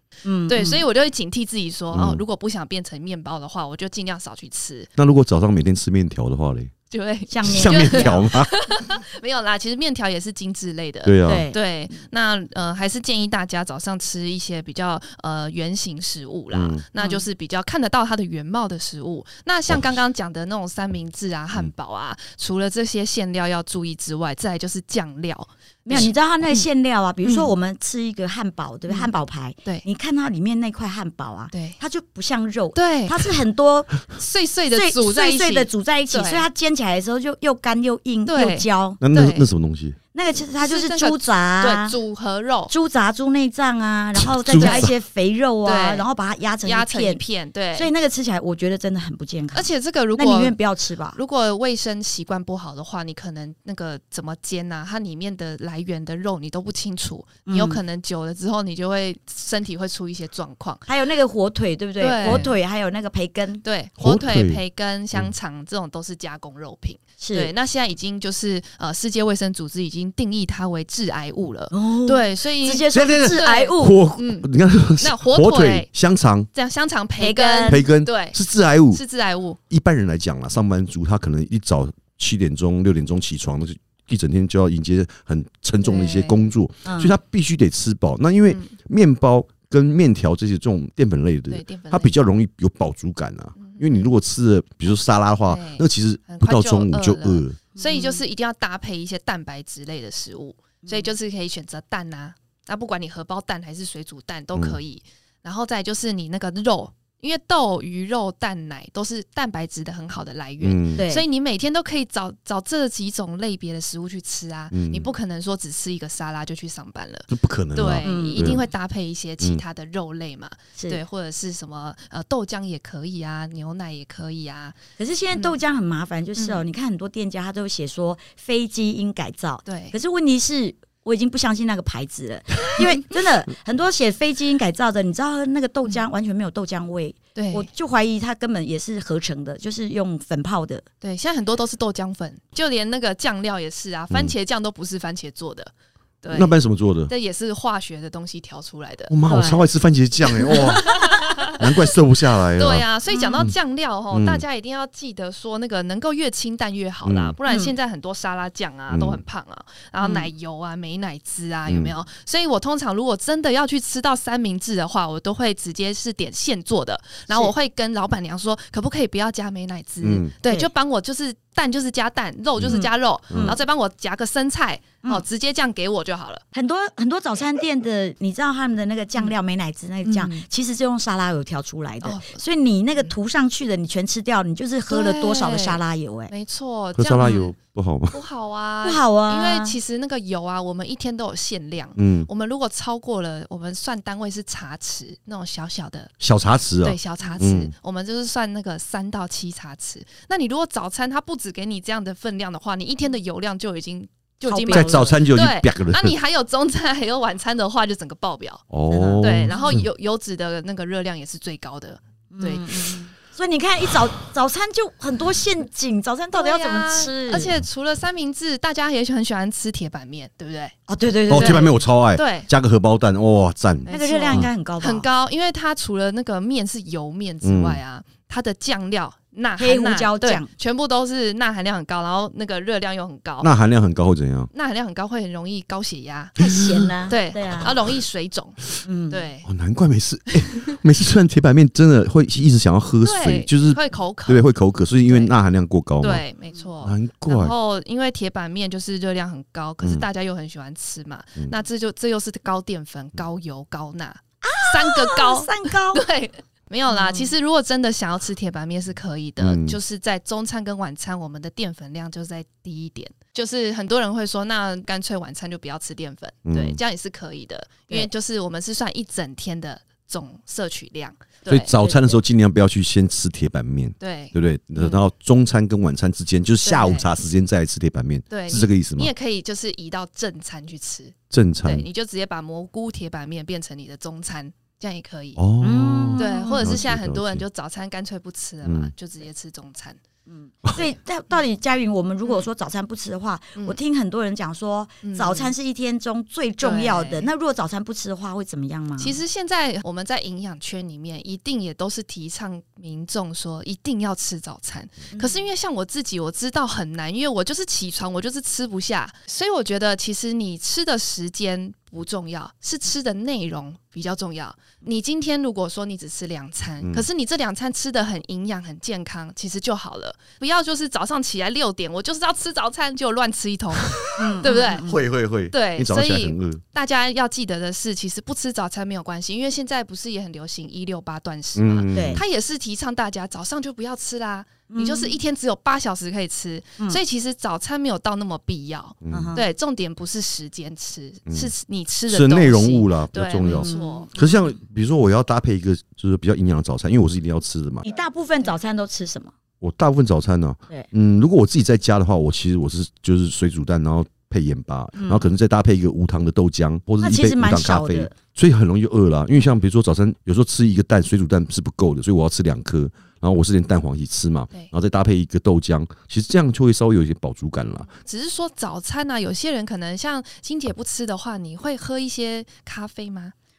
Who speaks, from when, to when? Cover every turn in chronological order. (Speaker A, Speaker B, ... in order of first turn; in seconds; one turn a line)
Speaker A: 0.2-0.8
Speaker B: 0.5-4.9
Speaker C: 1.9-2.2
Speaker C: 5.0-6.7
Speaker B: 6.9-26.6
Speaker A: 7.3-8.3
Speaker C: 7.4-8.5
Speaker C: 11.0-11.4
Speaker A: 11.2-11.6
Speaker C: 16.5-16.9
Speaker A: 17.0-17.2
Speaker C: 19.7-20.0
Speaker A: 25.9-34.0
Speaker B: 27.2-27.5
Speaker B: 31.5-31.8
Speaker B: 32.7-33.2
Speaker B: 34.1-36.5
Speaker A: 34.7-39.0
Speaker B: 38.2-39.5
Speaker C: 39.0-40.0
Speaker A: 40.1-42.0
Speaker B: 40.5-42.7
Speaker A: 42.7-51.2
Speaker C: 44.2-44.9
Speaker B: 44.5-44.9
Speaker B: 45.6-46.1
Speaker B: 46.6-47.9
Speaker B: 49.5-50.5
Speaker B: 51.1-60.8
Speaker A: 57.5-57.8
Speaker A: 60.9-63.6
Speaker B: 62.0-62.5
Speaker B: 63.6-75.9
Speaker C: 64.0-64.6
Speaker A: 67.2-67.5
Speaker A: 71.7-74.0
Speaker C: 72.9-76.5
Speaker B: 76.5-78.4
Speaker A: 77.2-77.8
Speaker C: 77.7-79.0
Speaker B: 78.9-79.6
Speaker C: 79.7-97.6
Speaker B: 85.8-86.5
Speaker A: 86.8-87.1
Speaker B: 91.5-92.2
Speaker B: 93.6-94.1
Speaker B: 95.4-124.8
Speaker A: 97.8-98.2
Speaker A: 100.8-101.2
Speaker C: 104.5-104.8
Speaker C: 110.6-111.0
Speaker A: 111.0-111.2
Speaker C: 114.7-115.1
Speaker C: 117.3-118.7
Speaker A: 118.0-118.6
Speaker A: 120.8-121.0
Speaker A: 125.0-140.8
Speaker B: 126.3-126.6
Speaker B: 129.7-129.9
Speaker B: 137.3-137.7
Speaker B: 141.0-146.6
Speaker C: 146.3-147.1
Speaker B: 147.1-149.1
Speaker C: 149.1-151.0
Speaker A: 149.3-149.7
Speaker A: 150.4-151.3
Speaker B: 150.4-151.6
Speaker C: 151.6-152.8
Speaker B: 152.5-176.4
Speaker A: 153.1-153.4
Speaker C: 154.1-154.4
Speaker C: 157.0-157.3
Speaker A: 157.5-157.7
Speaker C: 158.9-159.2
Speaker A: 160.0-160.3
Speaker C: 161.7-161.9
Speaker A: 167.3-167.5
Speaker C: 170.0-170.3
Speaker A: 170.4-170.7
Speaker C: 172.6-173.6
Speaker A: 172.7-173.6
Speaker A: 176.5-186.3
Speaker B: 180.0-180.4
Speaker B: 182.0-182.4
Speaker B: 184.9-187.5
Speaker C: 186.9-188.2
Speaker B: 188.1-196.1
Speaker A: 188.8-189.8
Speaker C: 192.0-192.3
Speaker C: 196.2-197.7
Speaker B: 196.8-208.6
Speaker A: 204.4-205.2
Speaker C: 204.7-206.2
Speaker C: 208.7-209.8
Speaker A: 208.9-209.7
Speaker B: 209.2-213.0
Speaker A: 212.3-217.5
Speaker B: 216.3-220.7
Speaker A: 220.9-221.8
Speaker C: 221.3-224.5
Speaker B: 221.3-222.5
Speaker B: 223.8-233.5
Speaker A: 223.9-225.1
Speaker C: 227.4-227.8
Speaker A: 229.6-230.5
Speaker C: 233.4-234.5
Speaker B: 234.5-236.3
Speaker A: 236.3-237.7
Speaker C: 236.4-236.8
Speaker B: 237.1-239.5
Speaker A: 238.8-239.3
Speaker C: 239.4-246.2
Speaker B: 243.0-244.5
Speaker B: 245.0-245.3
Speaker B: 246.0-271.9
Speaker C: 246.8-247.5
Speaker A: 254.4-256.0
Speaker A: 256.9-257.3
Speaker C: 259.4-259.8
Speaker C: 266.4-266.8
Speaker C: 271.5-279.1
Speaker A: 271.9-272.1
Speaker B: 274.0-275.0
Speaker B: 276.6-277.1
Speaker B: 278.3-285.4
Speaker C: 281.3-281.9
Speaker C: 285.4-287.4
Speaker A: 285.6-286.7
Speaker B: 286.2-290.0
Speaker C: 288.6-288.9
Speaker A: 290.3-299.2
Speaker B: 295.0-295.5
Speaker B: 296.6-297.3
Speaker B: 299.0-324.9
Speaker A: 305.1-305.4
Speaker C: 316.8-317.1
Speaker C: 323.9-324.2
Speaker A: 324.2-325.0
Speaker C: 324.8-326.6
Speaker B: 325.5-344.1
Speaker C: 331.5-332.2
Speaker A: 331.9-332.2
Speaker A: 334.7-335.2
Speaker C: 339.0-339.4
Speaker A: 339.1-339.4
Speaker C: 341.3-341.5
Speaker C: 342.1-347.8
Speaker A: 343.5-344.5
Speaker A: 347.8-349.3
Speaker C: 349.6-367.9
Speaker A: 355.0-355.3
Speaker A: 357.0-358.1
Speaker B: 368.0-373.3